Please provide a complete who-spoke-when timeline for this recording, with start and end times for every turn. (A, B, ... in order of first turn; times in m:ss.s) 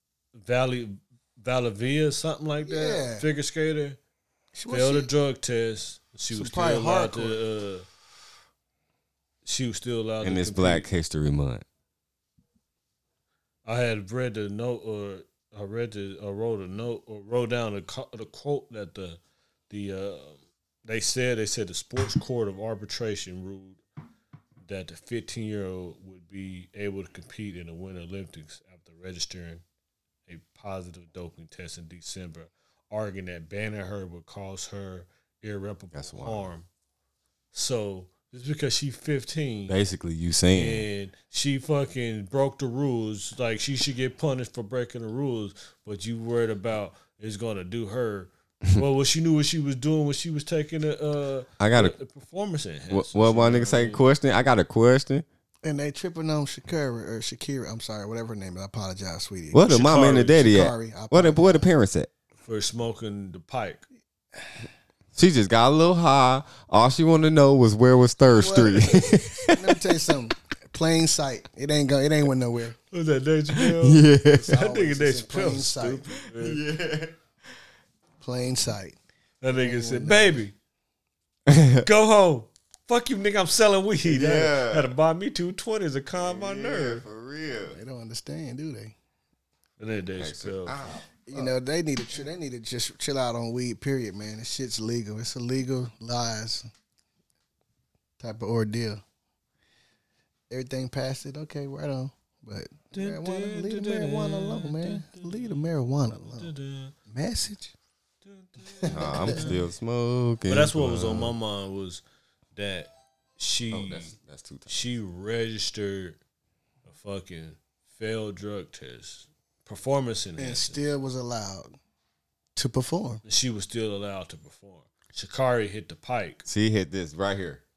0:00.4-0:04.0 A
0:02.6-0:03.2 B
0:04.5-0:05.1 B
0:04.7-0:07.8 A
0:06.3-0:07.4 B
0:09.4-0:10.9 A
0:10.2-0:11.6 C
0:13.6-0:23.8 A
0:24.6-0:29.6 A
0:30.3-0:36.7 A
0:35.9-0:36.4 C
0:37.5-0:39.8 A
0:39.7-0:40.8 C
0:40.5-0:54.0 A
0:51.6-0:51.9 C
0:52.9-0:55.2 C
0:55.6-1:01.6 B
0:59.5-1:02.1 C
0:59.7-1:00.4 A
1:02.4-1:03.8 A
1:05.1-1:09.8 C
1:08.3-1:12.8 B
1:12.9-1:16.6 A
1:13.5-1:14.5 C
1:14.3-1:16.2 B
1:16.4-1:17.1 C
1:18.2-1:19.0 B
1:19.4-1:20.5 A
1:19.5-1:20.4 B
1:21.5-1:21.8 C
1:21.8-1:27.0 A
1:24.0-1:24.9 C
1:26.2-1:27.8 C
1:27.7-1:28.9 B
1:29.8-1:30.7 A
1:30.2-1:31.5 C
1:31.2-1:36.7 B
1:38.2-1:39.0 B
1:40.5-1:46.5 B
1:42.9-1:45.6 A
1:46.3-1:46.9 A
1:47.1-1:47.7 B
1:48.2-1:49.6 A
1:48.8-1:49.4 B
1:48.8-1:51.3 C
1:50.5-1:52.0 A
1:52.5-1:54.1 A
1:53.7-1:54.7 C
1:54.7-1:56.2 A
1:56.8-2:00.8 A
2:00.4-2:01.7 B
2:02.6-2:03.2 B
2:03.2-2:06.4 A
2:06.4-2:07.6 C